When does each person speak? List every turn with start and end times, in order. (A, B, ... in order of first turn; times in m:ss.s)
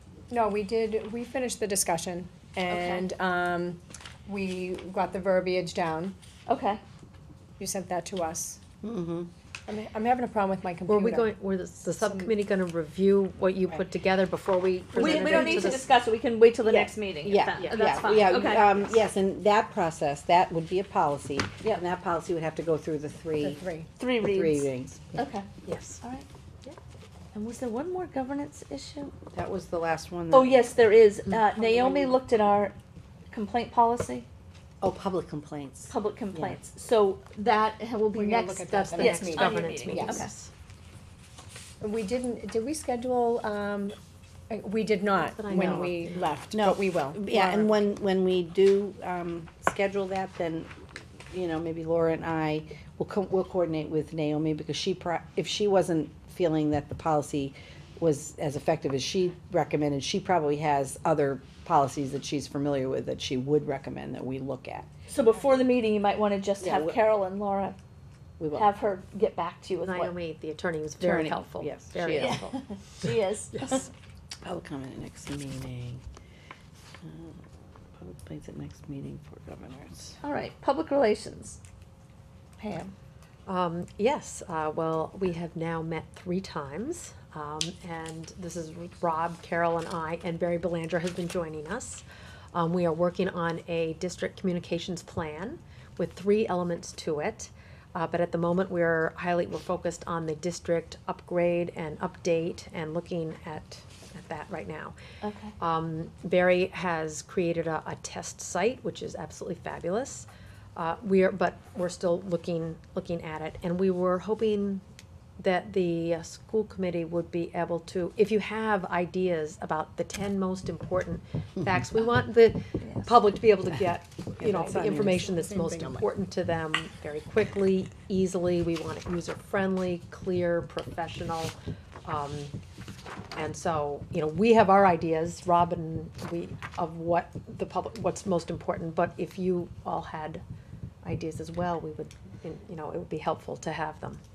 0:00.3-0:06.2 A
0:02.7-0:03.0 B
0:06.5-0:06.8 B
0:07.6-0:08.6 A
0:08.8-0:09.3 C
0:09.6-0:11.3 A
0:10.9-0:15.9 D
0:11.9-0:12.4 A
0:15.0-0:18.8 B
0:16.7-0:25.0 C
0:17.6-0:18.2 D
0:23.4-0:23.9 A
0:24.0-0:25.5 B
0:25.6-0:26.0 D
0:26.0-0:26.3 B
0:27.3-0:29.1 B
0:29.3-0:30.7 C
0:30.3-0:32.8 B
0:33.3-0:34.3 B
0:34.8-0:36.6 C
0:35.9-0:40.3 B
0:38.1-0:39.7 A
0:38.6-0:40.5 D
0:39.9-0:40.2 C
0:41.8-0:44.0 A
0:44.5-0:47.7 A
0:45.2-0:46.2 D
0:45.5-0:50.7 C
0:51.3-1:04.9 C
1:05.1-1:07.8 B
1:06.6-1:07.0 C
1:08.4-1:08.7 C
1:08.5-1:10.2 B
1:09.8-1:12.6 D
1:11.0-1:12.4 C
1:12.1-1:13.9 B
1:13.5-1:13.8 D
1:14.4-1:16.0 C
1:17.0-1:17.4 C
1:18.0-1:20.2 C
1:20.2-1:21.6 B
1:22.6-1:22.9 B
1:23.5-1:45.0 D
1:45.2-1:45.6 B
1:45.6-1:54.8 D
1:55.4-2:11.5 D
2:02.8-2:03.1 B
2:04.4-2:05.2 C
2:04.4-2:06.1 A
2:12.0-2:12.5 D
2:13.3-2:20.4 D
2:21.0-2:24.2 D